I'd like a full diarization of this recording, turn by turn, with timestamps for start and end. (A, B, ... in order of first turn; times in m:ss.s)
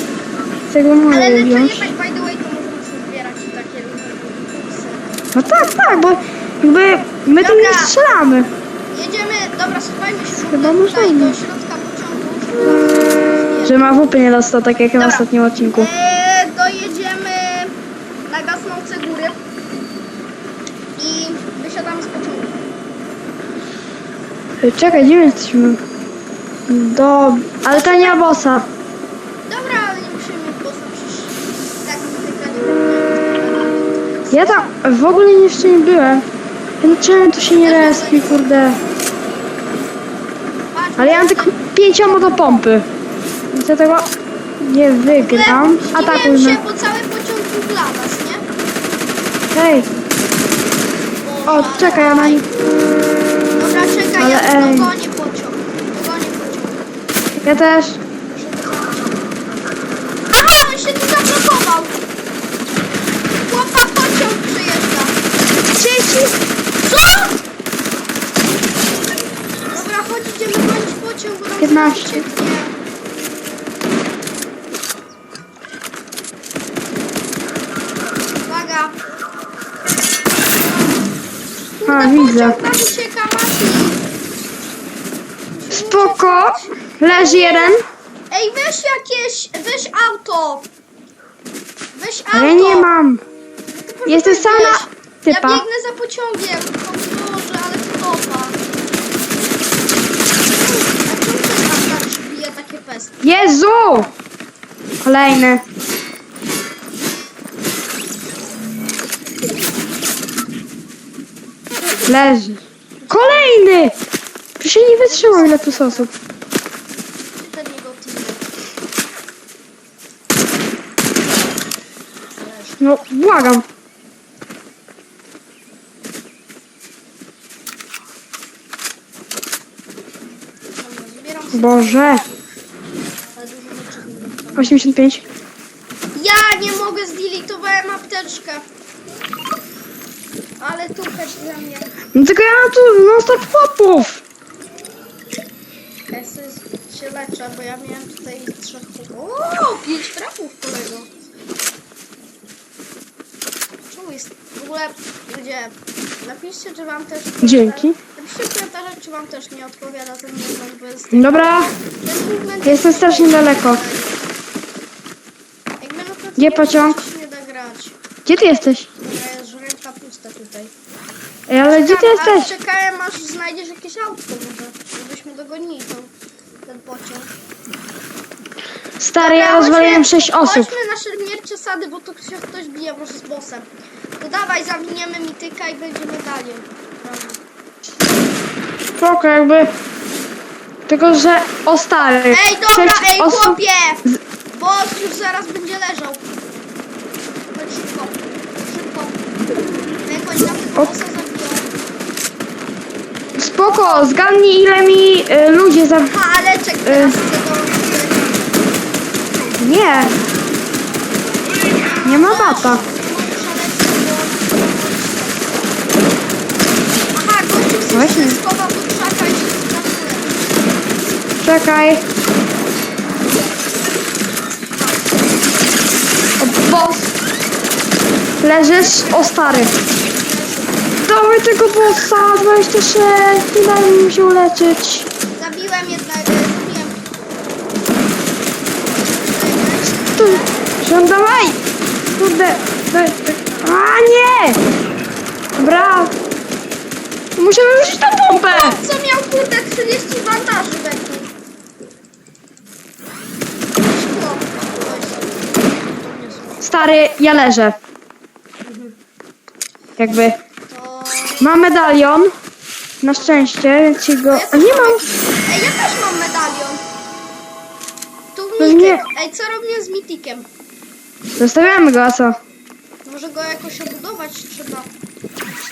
0:00.7-0:01.9 A
0:01.1-0:05.2 B
0:05.3-0:08.5 A
0:07.4-0:07.9 B
0:08.9-0:13.8 B
0:10.3-0:11.4 A
0:13.6-0:15.9 A
0:15.0-0:19.4 B
0:20.9-0:22.6 B
0:24.6-0:25.8 A
0:26.7-0:28.6 A
0:27.7-0:28.5 B
0:29.4-0:34.7 B
0:34.3-0:36.2 A
0:36.8-0:38.8 A
0:37.4-0:38.4 B
0:40.7-0:41.6 B
0:41.0-0:42.9 A
0:43.5-0:46.6 A
0:45.0-0:48.4 B
0:49.5-0:49.9 A
0:51.2-0:52.5 B
0:51.5-0:52.4 A
0:53.5-0:56.8 B
0:54.2-0:54.9 A
0:57.4-0:58.0 A
0:58.3-0:59.2 B
1:00.3-1:02.0 B
1:03.4-1:05.2 B
1:05.7-1:06.3 A
1:06.8-1:07.4 B
1:09.7-1:12.7 B
1:11.6-1:12.2 A
1:18.4-1:19.0 B
1:21.8-1:24.0 B
1:21.9-1:22.6 A
1:25.5-1:27.8 B
1:25.7-1:27.8 A
1:28.3-1:30.7 B
1:31.9-1:32.9 B
1:32.3-1:33.2 A
1:33.8-1:38.6 B
1:34.1-1:35.6 A
1:40.5-1:43.2 B
1:43.2-1:44.1 A
1:45.0-1:45.6 A
1:52.0-1:53.9 A
1:53.0-1:53.6 B
1:54.6-1:56.1 A
1:55.0-1:56.1 B
1:57.4-1:58.5 B
2:02.3-2:02.8 B
2:02.8-2:03.6 A
2:10.8-2:12.4 B
2:11.5-2:12.2 A
2:13.4-2:14.8 B
2:14.6-2:15.2 A
2:16.1-2:18.6 B
2:20.6-2:22.0 B
2:22.1-2:24.2 A
2:26.1-2:31.1 B
2:33.9-2:44.2 B
2:37.4-2:38.0 A
2:41.1-2:41.7 A
2:42.6-2:43.8 A
2:45.8-2:48.0 B
2:46.4-2:47.0 A
2:48.2-2:48.9 A
2:48.9-2:50.7 B
2:51.5-2:52.5 A
2:51.7-2:56.1 B
2:56.6-2:57.3 B
2:59.0-3:00.7 A
2:59.2-3:07.4 B
3:09.0-3:09.7 A
3:10.9-3:14.2 A
3:12.3-3:16.2 B
3:17.5-3:19.2 B
3:20.0-3:21.7 B
3:23.4-3:26.1 A
3:26.1-3:28.7 B
3:26.8-3:27.2 A
3:29.6-3:30.2 A
3:31.7-3:35.8 B
3:32.0-3:32.8 A
3:37.1-3:40.4 B
3:37.9-3:38.4 A
3:41.4-3:42.0 A
3:46.4-3:47.1 A
3:48.4-3:49.7 A
3:48.5-3:51.0 B
3:51.0-3:55.1 A
3:55.3-3:57.0 B
3:59.0-4:00.5 B
4:00.1-4:01.6 A
4:02.1-4:04.6 A
4:05.6-4:06.1 A
4:07.4-4:08.8 A
4:08.5-4:11.3 B
4:13.8-4:16.6 B
4:16.6-4:17.8 A
4:18.6-4:19.0 B
4:20.0-4:20.4 A
4:20.7-4:21.5 B
4:21.4-4:22.3 A
4:23.0-4:25.1 A
4:23.1-4:23.5 B
4:24.3-4:26.8 B
4:28.3-4:30.5 B
4:28.6-4:29.0 A
4:31.4-4:32.4 A
4:33.0-4:34.9 B